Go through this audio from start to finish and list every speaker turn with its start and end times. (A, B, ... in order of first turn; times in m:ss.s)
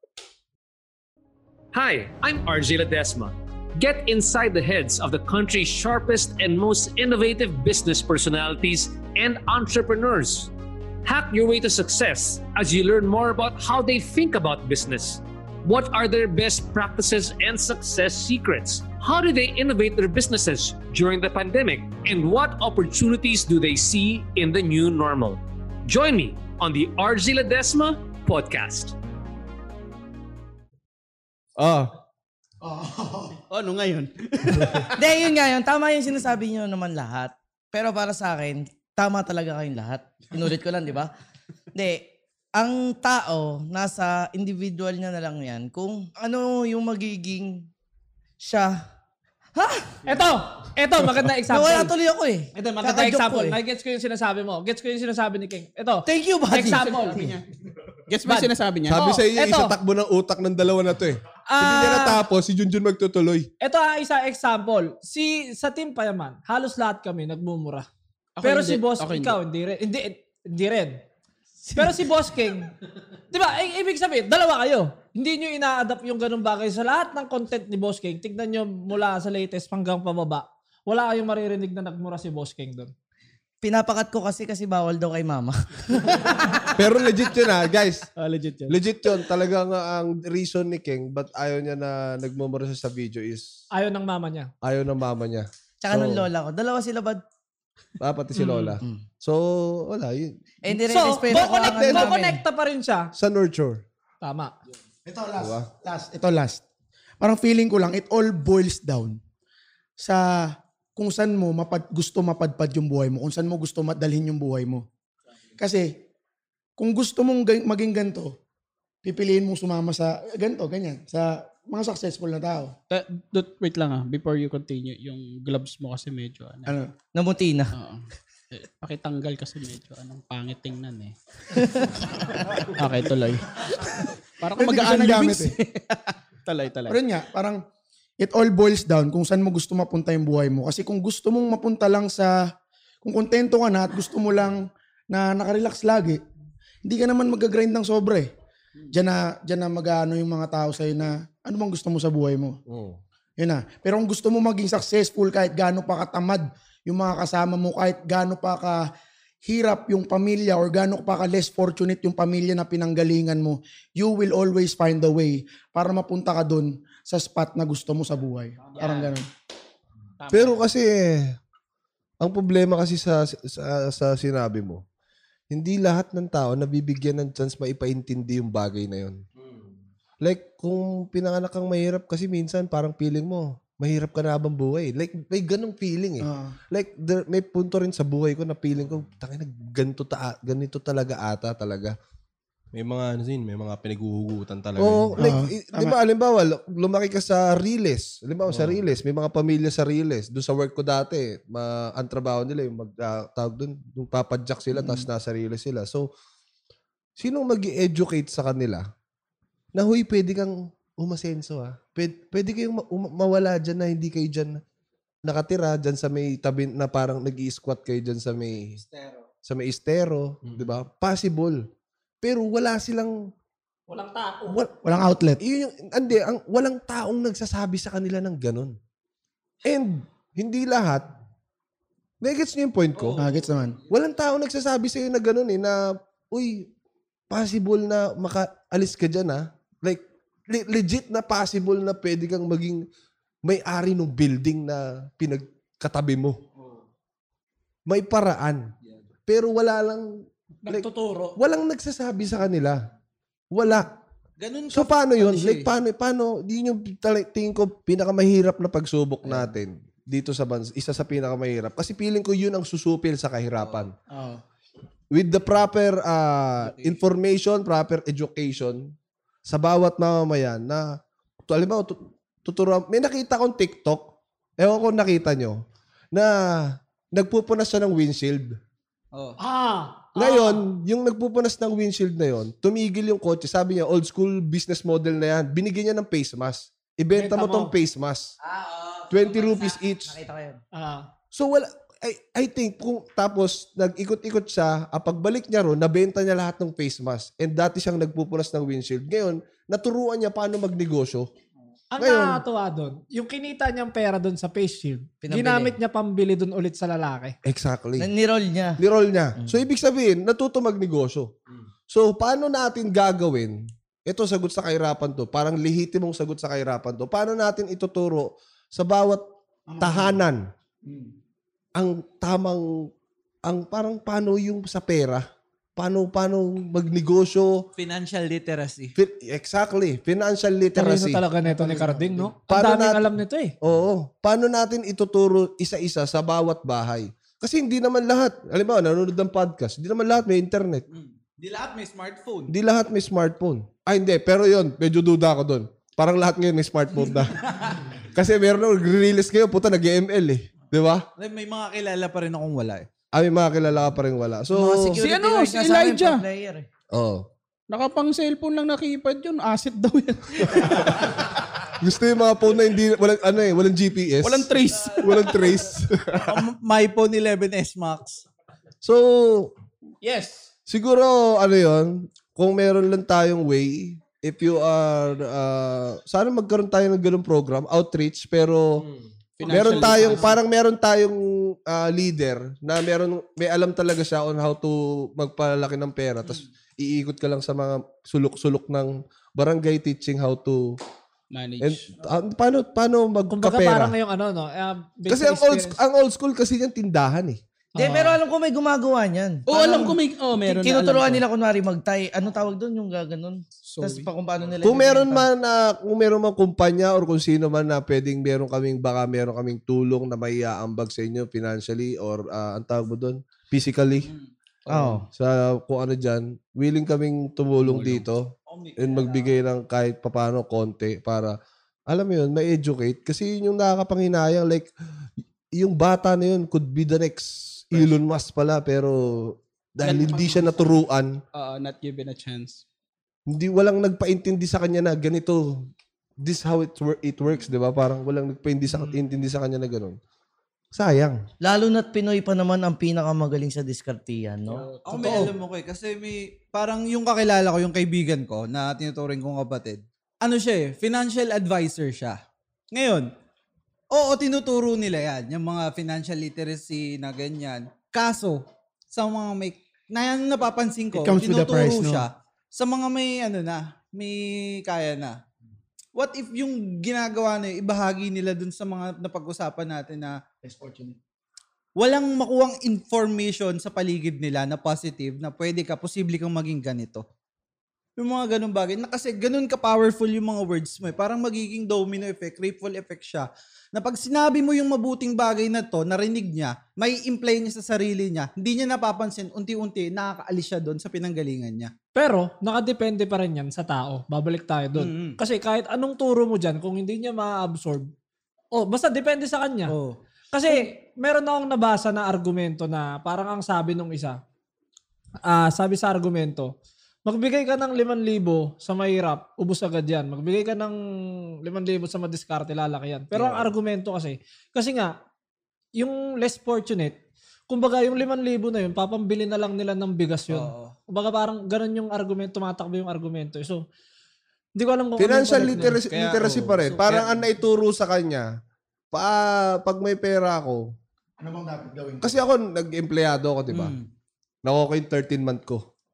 0:01.7-0:10.5 A
0:11.0-0:29.0 A
0:31.6-0:31.9 B
0:32.6-0:33.4 C
0:33.5-0:35.0 D
0:34.9-0:41.1 E
0:41.7-0:47.7 E
0:48.4-0:48.8 E
0:49.6-0:50.0 E
0:50.0-0:51.9 F
0:51.5-0:53.6 E
0:52.5-0:57.2 F
0:56.1-0:57.4 E
0:56.7-0:57.4 D
0:58.1-0:59.0 D
0:58.2-0:59.7 F
0:58.9-1:03.5 G
1:01.5-1:02.2 F
1:03.6-1:07.9 F
1:08.4-1:09.4 D
1:08.4-1:11.0 F
1:11.6-1:12.0 D
1:11.8-1:12.7 F
1:13.3-1:22.9 F
1:23.6-1:26.7 E
1:26.7-1:28.1 G
1:28.2-1:28.8 D
1:28.7-1:33.5 G
1:33.7-1:34.5 F
1:34.6-1:36.2 G
1:35.8-1:37.2 E
1:38.0-1:40.4 G
1:40.6-1:42.4 E
1:40.8-1:43.1 F
1:41.4-1:42.2 G
1:43.1-1:43.8 G
1:44.2-1:44.5 F
1:45.0-1:46.6 C
1:45.4-1:45.7 G
1:47.2-1:49.2 C
1:50.0-1:54.8 C
1:55.6-1:56.0 C
1:56.8-1:58.4 C
1:59.0-2:02.7 C
2:02.9-2:06.7 D
2:06.7-2:06.9 C
2:07.1-2:07.7 E
2:07.7-2:17.0 D
2:14.6-2:15.5 C
2:16.9-2:17.6 C
2:18.2-2:22.5 C
2:23.0-2:26.2 C
2:26.8-2:28.3 C
2:28.9-2:32.6 C
2:32.7-2:33.0 G
2:33.4-2:38.8 C
2:39.4-2:49.3 C
2:48.7-2:49.1 D
2:50.2-2:50.6 D
2:50.3-2:51.4 G
2:52.2-2:54.8 G
2:55.5-2:59.2 G
3:00.2-3:12.0 G
3:06.2-3:06.6 C
3:12.7-3:15.2 B
3:14.8-3:26.1 G
3:15.2-3:15.9 C
3:24.8-3:25.0 C
3:27.2-3:28.8 G
3:29.7-3:34.6 G
3:35.2-3:38.8 G
3:39.4-3:41.6 G
3:42.2-3:43.2 G
3:43.9-3:44.6 F
3:44.5-3:44.7 G
3:44.8-3:45.4 C
3:45.4-3:48.8 G
3:49.6-3:51.1 G
3:52.2-3:53.2 G
3:53.0-3:53.2 H
3:53.2-3:53.8 C
3:53.9-3:56.7 G
3:57.3-4:02.9 G
4:03.4-4:06.4 G
4:07.9-4:08.7 G
4:09.3-4:12.9 G
4:10.6-4:11.4 F
4:13.5-4:13.9 G
4:14.4-4:15.7 H
4:14.7-4:23.9 G
4:24.1-4:24.4 C
4:25.1-4:28.9 G
4:26.6-4:26.9 D
4:29.4-4:38.6 G
4:39.4-4:40.6 F
4:40.1-4:48.3 G
4:47.2-4:47.7 F
4:48.4-4:50.6 E
4:49.1-4:50.2 G
4:50.7-4:51.1 F
4:51.3-5:01.3 G
5:01.9-5:07.4 F
5:02.0-5:02.4 G
5:05.2-5:05.7 E
5:07.4-5:08.1 G
5:08.0-5:08.8 E
5:08.8-5:11.3 G
5:11.9-5:19.2 G
5:19.7-5:20.2 C
5:19.8-5:20.4 G
5:20.8-5:21.1 C
5:21.7-5:22.9 G
5:23.4-5:25.2 G
5:25.8-5:27.6 G
5:27.8-5:28.9 H
5:28.9-5:31.2 G
5:30.7-5:33.5 F
5:31.4-5:32.3 C
5:32.5-5:33.1 G
5:33.6-5:40.8 G
5:40.9-5:42.5 H
5:42.5-5:47.4 G
5:48.1-5:51.0 G
5:51.2-5:52.9 H
5:53.1-5:55.0 G
5:54.5-5:56.7 E
5:55.0-5:56.2 D
5:56.9-5:57.2 G
5:57.7-6:01.3 D
6:01.8-6:06.4 G
6:04.2-6:05.4 D
6:06.2-6:08.2 H
6:08.8-6:09.5 G
6:10.7-6:18.8 G
6:19.4-6:20.4 D
6:19.5-6:30.8 G
6:31.3-6:31.9 D
6:31.6-6:33.9 G
6:33.3-6:35.8 F
6:35.1-6:37.4 G
6:37.7-6:38.2 F
6:37.8-6:45.3 E
6:39.5-6:41.2 D
6:43.6-6:44.1 D
6:44.6-6:54.1 G
6:54.0-6:54.3 H
6:54.7-6:55.0 E
6:55.1-7:01.3 G
6:57.6-6:58.0 D
6:58.5-6:59.4 H
7:01.9-7:04.7 G
7:05.6-7:11.2 G
7:09.8-7:10.7 D
7:11.3-7:12.6 D
7:13.3-7:15.6 G
7:16.2-7:20.0 G
7:20.7-7:21.2 G
7:21.4-7:24.7 E
7:24.5-7:25.3 D
7:24.8-7:32.2 H
7:32.7-7:33.1 H
7:33.9-7:45.2 H
7:40.9-7:42.0 C
7:46.0-7:50.2 H
7:50.4-7:51.0 C
7:51.8-7:57.0 H
7:58.0-8:11.7 H
8:11.9-8:17.9 F
8:14.8-8:15.2 H
8:18.5-8:19.7 F
8:19.7-8:20.0 H
8:20.3-8:24.2 F
8:25.2-8:26.5 F
8:27.0-8:35.0 F
8:35.8-8:43.6 F
8:40.3-8:40.7 H
8:44.6-8:45.8 F
8:45.0-8:48.3 G
8:45.9-8:47.1 H
8:46.2-8:46.8 D
8:48.9-8:50.6 G
8:51.2-8:52.1 C
8:52.0-8:53.7 G
8:53.5-8:53.9 H
8:54.4-8:55.6 G